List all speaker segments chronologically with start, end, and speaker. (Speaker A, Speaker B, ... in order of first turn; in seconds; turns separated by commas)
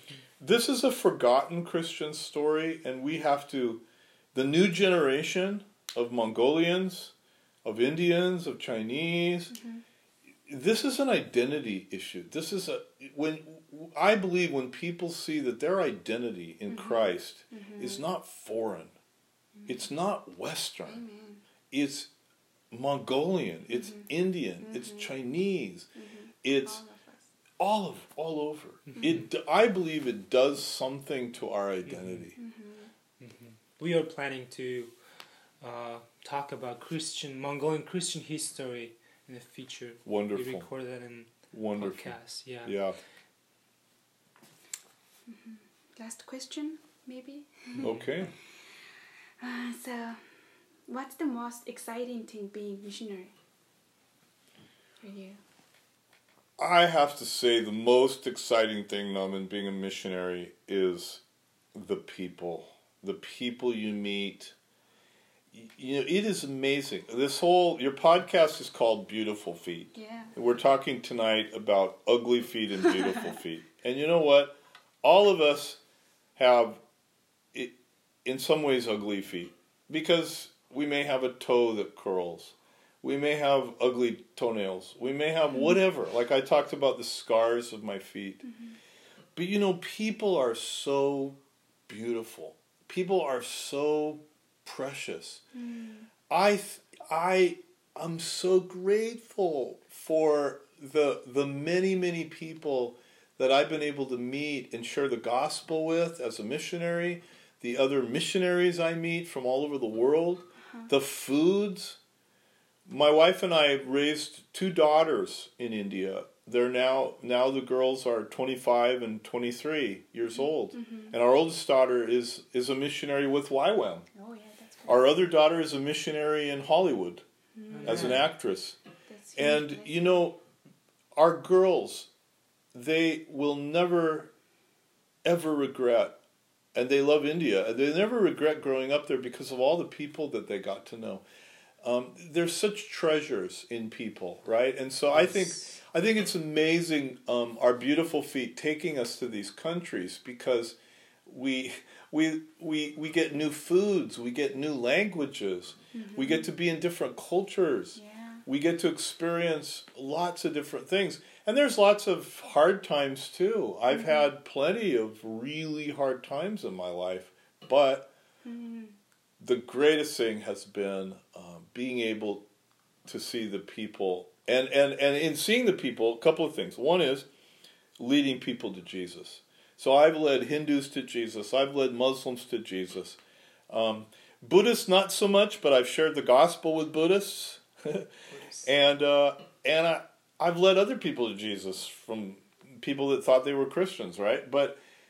Speaker A: 0.4-3.8, Speaker A: 4.3-7.1, Speaker A: 7.6-9.6, Speaker B: 9.5-9.8, Speaker A: 10.5-18.9, Speaker B: 16.7-18.0, Speaker A: 19.7-21.0, Speaker B: 20.9-21.4, Speaker A: 21.7-22.1, Speaker A: 22.7-25.9, Speaker B: 23.7-25.1, Speaker B: 25.9-27.3, Speaker A: 26.4-26.8, Speaker A: 27.6-32.4, Speaker C: 28.9-29.3, Speaker C: 31.9-32.3, Speaker B: 32.4-32.9, Speaker C: 33.2-34.9, Speaker C: 35.6-42.8, Speaker A: 40.0-40.7, Speaker A: 41.5-43.0, Speaker B: 45.3-48.0, Speaker C: 47.8-48.1, Speaker A: 47.8-48.3, Speaker B: 49.4-50.3, Speaker B: 50.9-53.3, Speaker B: 55.0-55.4, Speaker A: 56.6-61.2, Speaker A: 61.8-64.5, Speaker A: 65.5-75.8, Speaker B: 70.0-70.3, Speaker B: 72.9-73.3, Speaker A: 76.4-76.8, Speaker A: 77.5-88.4, Speaker B: 88.4-88.8, Speaker A: 89.4-95.4, Speaker B: 95.5-96.1, Speaker A: 96.3-112.0, Speaker B: 110.6-110.9, Speaker A: 112.9-124.1, Speaker B: 120.3-121.2, Speaker B: 124.1-125.2, Speaker A: 124.9-127.2, Speaker B: 127.5-128.3, Speaker C: 127.7-128.3, Speaker A: 127.8-128.8, Speaker B: 129.1-130.2, Speaker A: 129.3-130.4, Speaker A: 131.2-132.1, Speaker A: 132.7-134.3, Speaker A: 135.2-136.2, Speaker A: 136.8-141.2, Speaker A: 141.8-168.1, Speaker C: 145.1-145.8, Speaker B: 155.9-156.5, Speaker B: 158.0-158.4, Speaker B: 163.9-164.3, Speaker B: 168.4-168.9, Speaker A: 169.4-172.4, Speaker A: 173.1-177.3, Speaker A: 178.0-183.2, Speaker A: 183.7-188.1, Speaker C: 188.3-188.7, Speaker A: 188.6-194.8